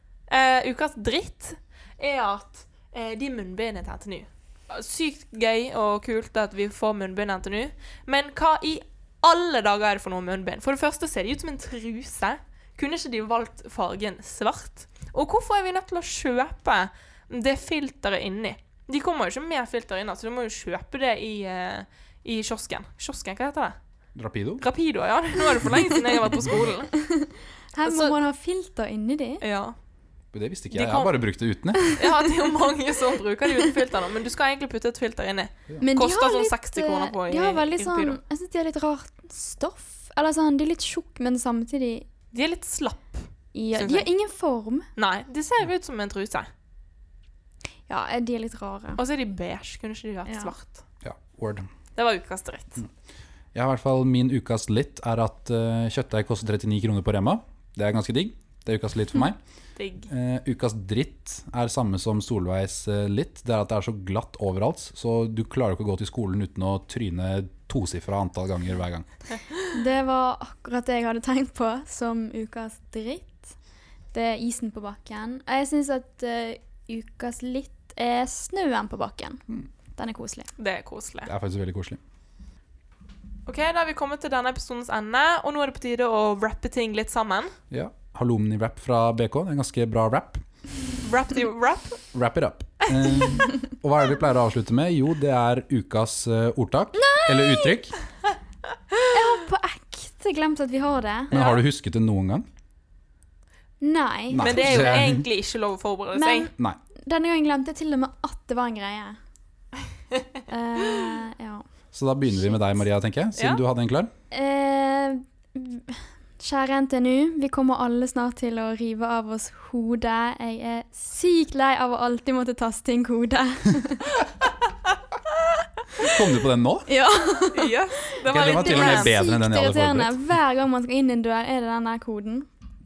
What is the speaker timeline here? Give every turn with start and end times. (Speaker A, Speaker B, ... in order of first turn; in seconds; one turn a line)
Speaker A: 0.3-23.8
Speaker B: 24.2-24.6
Speaker A: 24.6-26.9
Speaker C: 27.0-29.4
Speaker A: 27.8-28.2
Speaker A: 29.4-29.8
Speaker B: 30.3-31.8
Speaker A: 30.7-31.2
Speaker A: 31.9-38.2
Speaker C: 35.8-42.1
Speaker A: 42.3-44.1
Speaker C: 43.5-44.9
Speaker A: 45.0-46.5
Speaker C: 47.9-49.0
Speaker A: 49.0-50.8
Speaker C: 50.3-50.5
Speaker B: 51.0-51.7
Speaker A: 52.0-52.8
Speaker B: 53.5-59.4
Speaker A: 59.8-60.1
Speaker B: 60.1-69.1
Speaker C: 69.7-73.5
Speaker C: 74.1-79.4
Speaker C: 80.0-80.5
Speaker A: 80.6-81.3
Speaker B: 81.2-82.0
Speaker A: 83.5-87.5
Speaker B: 87.7-90.4
Speaker A: 91.0-92.0
Speaker B: 92.1-98.0
Speaker C: 97.0-97.8
Speaker C: 99.1-101.3
Speaker B: 101.3-102.5
Speaker A: 101.3-101.6
Speaker C: 103.8-105.0
Speaker B: 104.3-105.3
Speaker A: 104.4-106.5
Speaker C: 106.2-106.5
Speaker C: 107.0-109.2
Speaker C: 110.5-111.7
Speaker B: 111.9-114.1
Speaker C: 112.3-112.8
Speaker A: 113.4-113.6
Speaker C: 114.3-124.1
Speaker B: 126.0-126.9
Speaker C: 126.9-127.7
Speaker A: 127.5-129.2
Speaker B: 128.3-130.2
Speaker C: 128.4-132.5